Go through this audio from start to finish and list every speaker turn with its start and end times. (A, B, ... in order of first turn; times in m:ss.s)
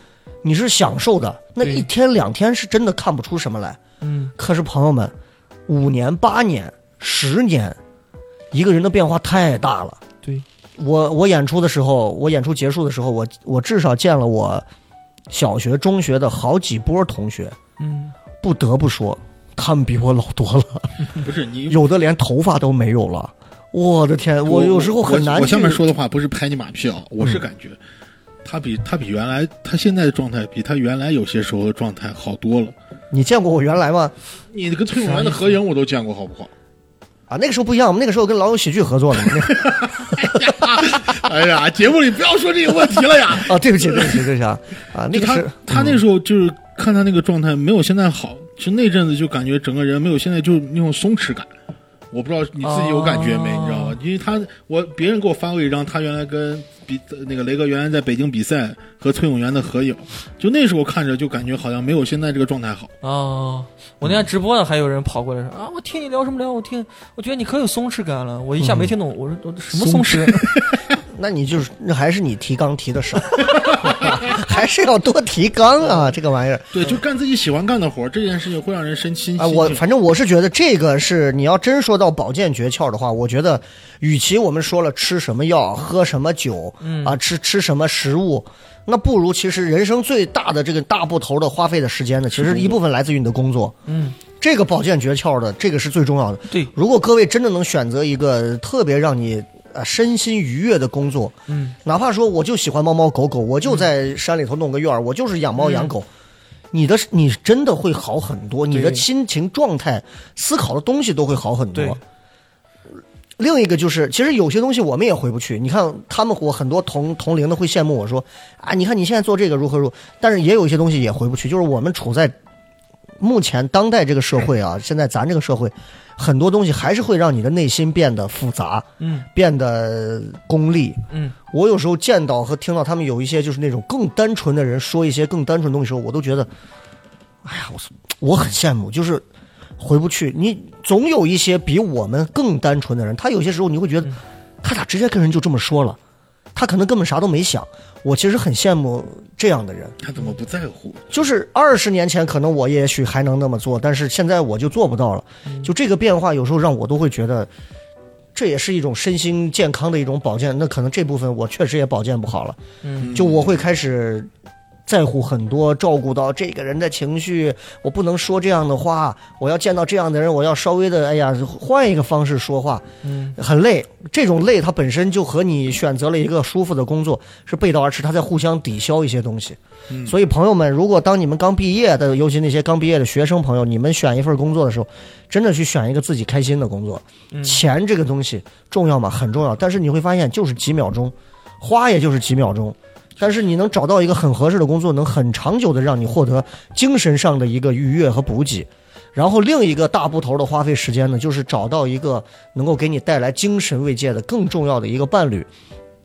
0:00.4-0:03.8 A
0:01.6-0:01.9 B
0:04.0-0:04.3 B
0:04.4-0:05.1 A
0:05.7-0:07.8 A
0:08.5-0:10.0 A
0:10.8-0:14.7 A
0:15.3-0:17.6 A
0:17.8-0:18.2 B
0:18.4-0:25.9 A
0:21.1-0:21.8 C
0:24.4-0:27.8 C
0:28.4-0:32.7 C
0:33.1-0:34.1 A
0:34.5-0:36.5 C
0:35.0-0:35.6 B
0:37.3-0:40.3 A
0:39.4-0:44.3 C
0:43.4-0:46.0 A
0:45.1-0:51.5 C
0:52.1-1:02.9 C
0:52.6-0:54.0 B
1:03.0-1:10.6 B
1:08.6-1:08.9 A
1:09.7-1:10.8 C
1:11.1-1:16.8 A
1:13.5-1:14.3 C
1:16.7-1:19.8 C
1:19.4-1:33.7 A
1:26.8-1:27.2 B
1:32.3-1:32.8 C
1:33.9-1:34.2 B
1:34.4-1:46.1 A
1:41.5-1:41.8 B
1:45.6-1:45.9 B
1:46.7-1:52.0 A
1:48.7-1:49.0 B
1:51.7-1:52.0 B
1:53.4-2:02.4 A
2:03.2-2:16.5 A
2:09.0-2:09.3 B
2:11.1-2:11.4 B
2:17.4-2:19.2 A
2:19.8-2:26.0 A
2:26.6-2:30.0 A
2:30.0-2:31.0 C
2:31.1-2:37.5 A
2:35.4-2:35.7 B
2:38.4-2:42.6 A
2:42.8-2:43.2 B
2:43.0-2:43.6 C
2:43.1-2:44.3 A
2:44.9-2:52.8 A
2:53.0-2:53.4 B
2:53.4-3:25.5 A
2:59.9-3:00.2 C
3:07.3-3:07.6 B